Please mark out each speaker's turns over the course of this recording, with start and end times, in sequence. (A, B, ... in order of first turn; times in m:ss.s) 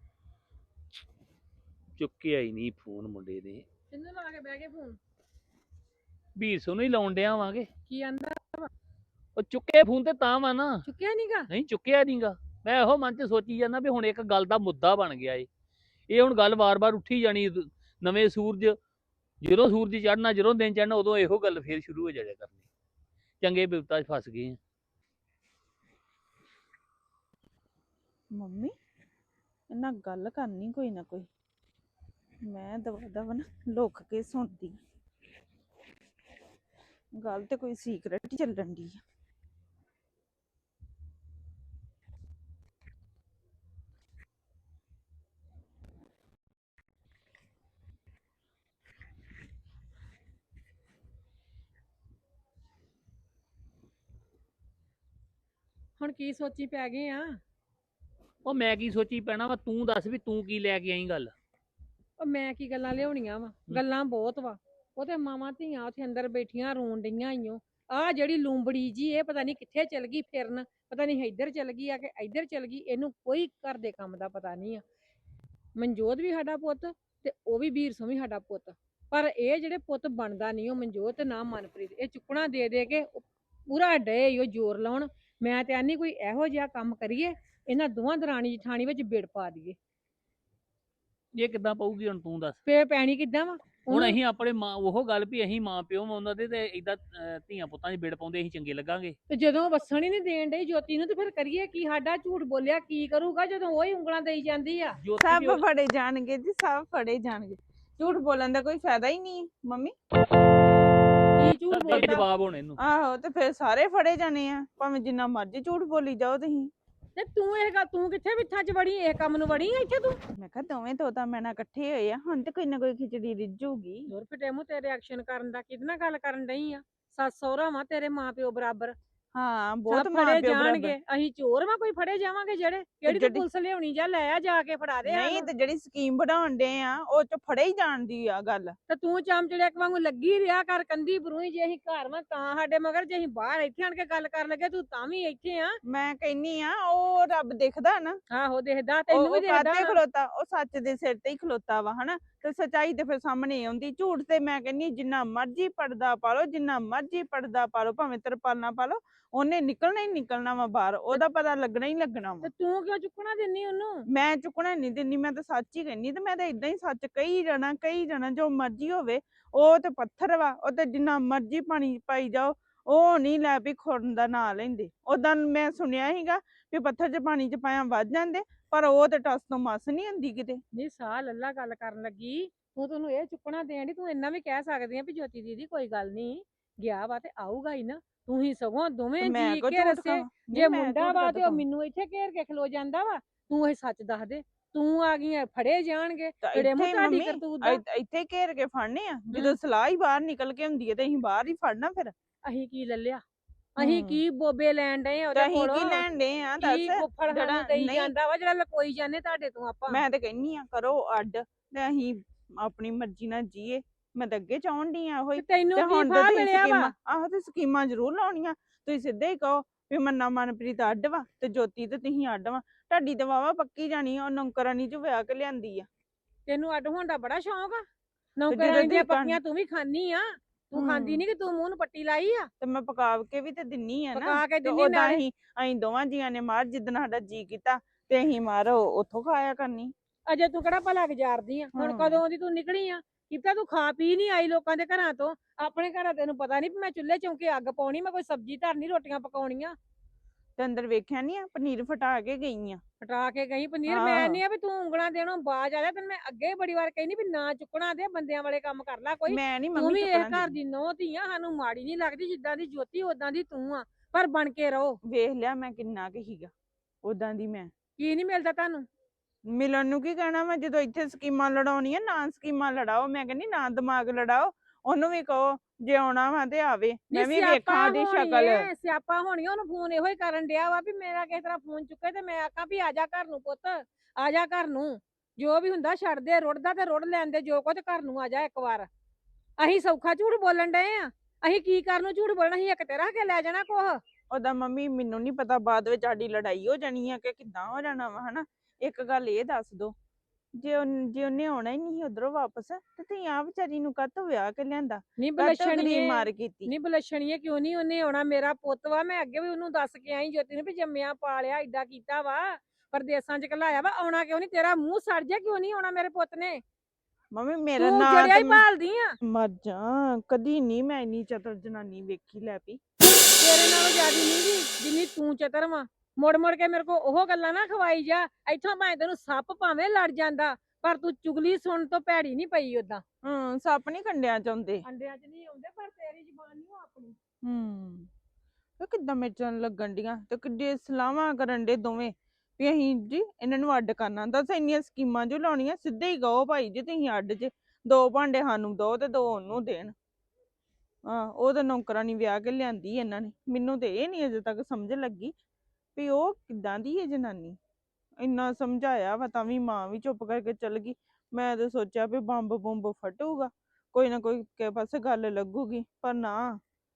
0:02.0-0:03.6 A
0:03.9-0:05.0 B
0:06.4-0:07.7 A
0:07.9-0:08.7 B
0:09.4-0:10.8 A
0:10.8-0:11.5 B
0:11.5-0:15.5 A
0:16.1-0:18.8 A
0:19.4-0:22.6 A
0:23.4-0:24.6 A
0:28.3-0:28.7 C
0:29.7-0:31.3 C
0:32.4-0:34.8 C
0:37.1-0:39.0 C
0:56.0-0:57.4 B
0:58.4-1:01.3 A
1:02.2-1:14.8 B
1:15.8-1:29.8 B
1:31.3-1:32.6 A
1:32.6-1:34.2 B
1:33.9-1:39.2 A
1:39.3-1:45.0 B
1:45.0-1:45.6 A
1:45.2-1:49.9 C
1:51.4-1:52.2 B
1:51.7-1:52.8 A
1:51.9-1:52.2 C
1:52.8-1:56.7 C
1:57.2-2:00.2 B
2:00.4-2:04.1 C
2:04.1-2:09.0 B
2:09.3-2:11.0 C
2:09.9-2:15.5 B
2:13.0-2:13.4 C
2:15.0-2:18.8 C
2:18.9-2:25.8 B
2:25.8-2:28.2 C
2:28.3-2:30.0 B
2:29.1-2:42.5 C
2:42.4-2:44.0 B
2:44.1-3:00.6 C
3:00.7-3:17.8 B
3:09.2-3:11.6 C
3:16.4-3:22.1 C
3:22.4-3:23.2 B
3:23.8-3:26.0 B
3:23.8-3:24.2 C
3:25.3-3:28.1 C
3:26.6-3:30.0 B
3:29.9-3:45.9 C
3:35.4-3:36.9 B
3:46.5-3:47.8 B
3:48.4-3:52.5 B
3:48.5-3:49.4 C
3:50.7-3:51.2 C
3:52.6-3:59.9 C
3:54.1-3:55.2 B
4:00.3-4:09.8 B
4:01.7-4:02.2 C
4:10.6-4:12.8 C
4:13.0-4:25.0 B
4:13.9-4:14.4 C
4:19.3-4:20.6 C
4:25.1-4:26.5 C
4:27.0-4:27.7 C
4:28.0-4:28.9 B
4:29.5-4:38.7 C
4:37.1-4:48.9 B
4:49.6-4:54.0 B
4:54.3-4:59.9 C
5:00.5-5:06.7 C
5:05.2-5:16.6 B
5:17.3-5:18.6 C
5:17.8-5:19.2 B
5:19.2-5:22.8 C
5:23.4-5:33.0 B
5:33.2-5:34.8 C
5:34.8-5:37.2 B
5:37.4-5:38.1 C
5:38.8-5:49.9 C
5:51.1-5:55.3 C
5:56.0-5:57.6 C
5:58.2-6:06.6 C